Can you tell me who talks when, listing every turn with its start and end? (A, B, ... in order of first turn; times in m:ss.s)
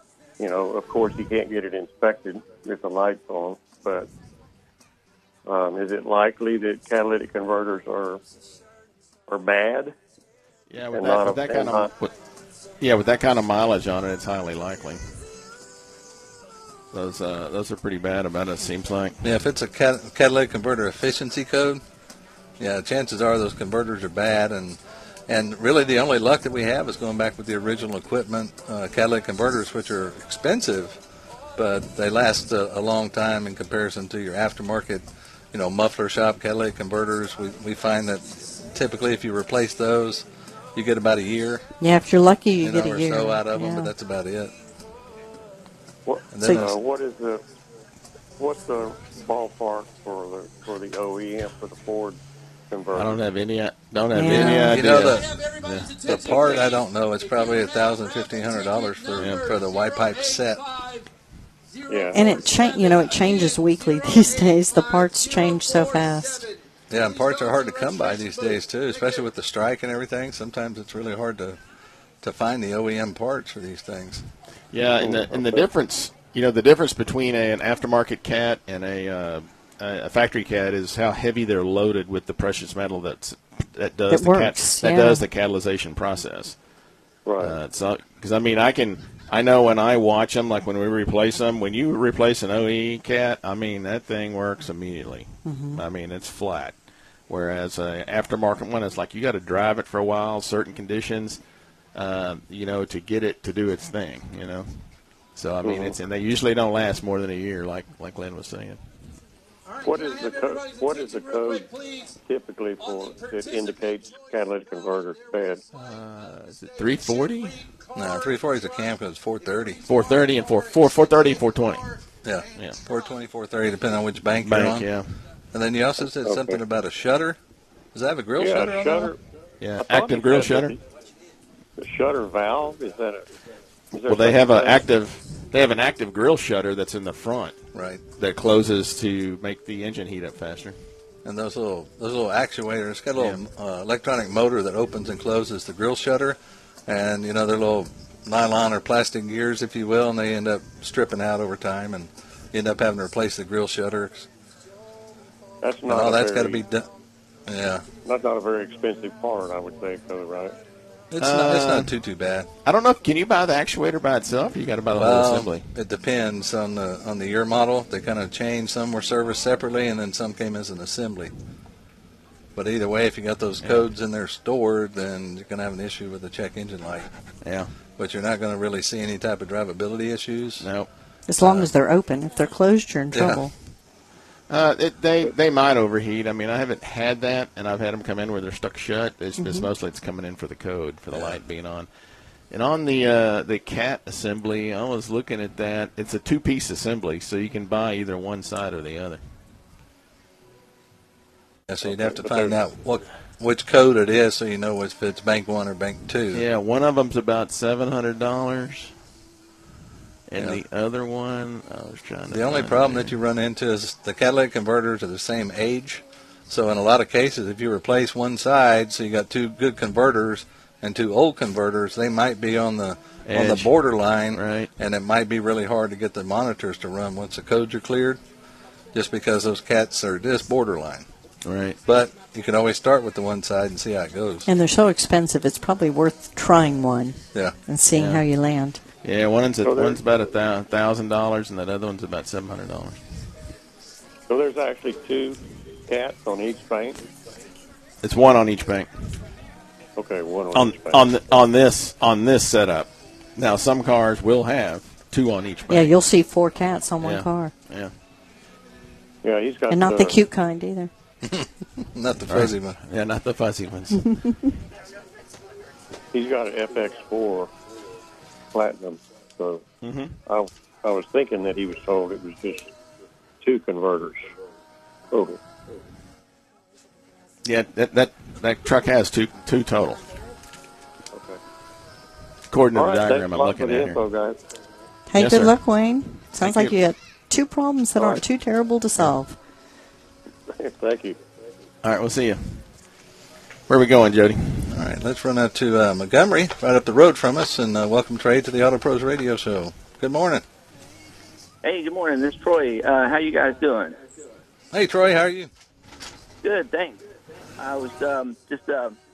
0:00.4-0:04.1 A
0:05.4-0:08.2 A
0:09.3-0:09.9 A
0:10.7-0:12.1 B
0:10.9-0:11.9 A
0:12.8-0:15.0 B
0:16.9-0:19.2 B
0:19.2-0:21.8 C
0:22.6-0:31.0 C
0:31.6-0:41.7 C
0:41.8-0:43.9 D
0:42.6-0:44.5 C
0:46.0-0:47.4 A
0:46.3-0:46.8 C
0:46.4-0:46.7 D
0:48.4-0:52.2 A
0:52.7-0:53.2 A
0:52.9-0:56.0 B
0:54.1-0:54.8 D
0:54.2-0:55.4 C
0:56.0-1:00.6 C
0:59.2-0:59.4 B
1:01.8-1:02.2 A
1:02.1-1:06.5 D
1:06.9-1:11.6 C
1:12.2-1:14.3 C
1:14.7-1:26.6 B
1:15.0-1:15.7 A
1:24.1-1:25.2 D
1:27.2-1:27.6 A
1:27.4-1:36.7 B
1:35.4-1:35.8 D
1:37.3-1:41.4 B
1:41.9-1:48.8 B
1:45.6-1:45.9 A
1:49.8-1:55.6 A
1:55.7-1:57.7 B
1:57.9-1:59.8 C
1:59.9-2:01.9 B
2:02.2-2:04.9 C
2:02.5-2:02.8 B
2:04.4-2:05.2 B
2:05.5-2:07.4 C
2:06.2-2:06.6 A
2:07.9-2:09.1 C
2:08.4-2:09.2 A
2:09.6-2:10.8 B
2:09.8-2:10.8 A
2:11.8-2:13.3 A
2:13.9-2:14.8 A
2:14.0-2:17.6 B
2:17.7-2:18.0 C
2:18.2-2:20.8 B
2:21.2-2:34.3 C
2:35.6-2:36.6 A
2:35.9-2:36.9 C
2:37.5-2:37.8 C
2:38.0-2:40.6 A
2:41.1-2:42.5 C
2:41.2-2:41.9 B
2:42.6-2:45.7 B
2:44.9-2:51.3 C
2:52.5-2:57.1 C
2:57.4-2:57.7 B
2:58.0-3:00.7 C
3:00.6-3:00.9 B
3:01.3-3:03.5 D
3:01.4-3:01.7 C
3:03.1-3:03.4 C
3:04.5-3:11.9 B
3:09.4-3:09.7 D
3:11.1-3:11.4 C
3:12.5-3:19.2 B
3:21.7-3:26.4 C
3:21.8-3:22.6 B
3:26.3-3:28.9 B
3:30.3-3:33.1 B
3:32.3-3:48.2 C
3:43.3-3:43.7 B
3:44.3-3:44.7 B
3:48.9-3:51.1 C
3:51.4-3:51.8 B
3:51.8-3:54.5 C
3:54.4-3:58.8 D
3:57.9-3:58.2 B
3:59.0-4:03.0 B
3:59.6-4:00.0 A
4:04.3-4:07.0 A
4:08.0-4:09.3 B
4:10.0-4:11.1 A
4:10.5-4:15.9 B
4:15.7-4:17.5 D
4:17.0-4:17.9 B
4:19.2-4:20.2 A
4:19.7-4:20.9 D
4:21.4-4:22.8 C
4:22.3-4:24.2 B
4:26.1-4:27.5 A
4:28.5-4:29.6 A
4:29.8-4:30.2 B
4:30.2-4:32.7 A
4:33.4-4:34.2 A
4:35.1-4:35.4 A
4:37.4-4:40.0 B
4:41.1-4:41.4 A
4:42.5-4:44.0 B
4:42.7-4:44.4 A
4:45.1-4:49.4 D
4:45.2-4:45.6 B
4:46.4-4:46.7 B
4:48.0-4:48.2 A
4:50.5-4:51.2 A
4:51.8-4:52.6 B
4:53.7-4:54.8 B
4:54.7-5:00.4 C
5:01.6-5:04.0 E
5:04.7-5:05.5 C
5:06.4-5:07.0 E
5:07.6-5:09.0 E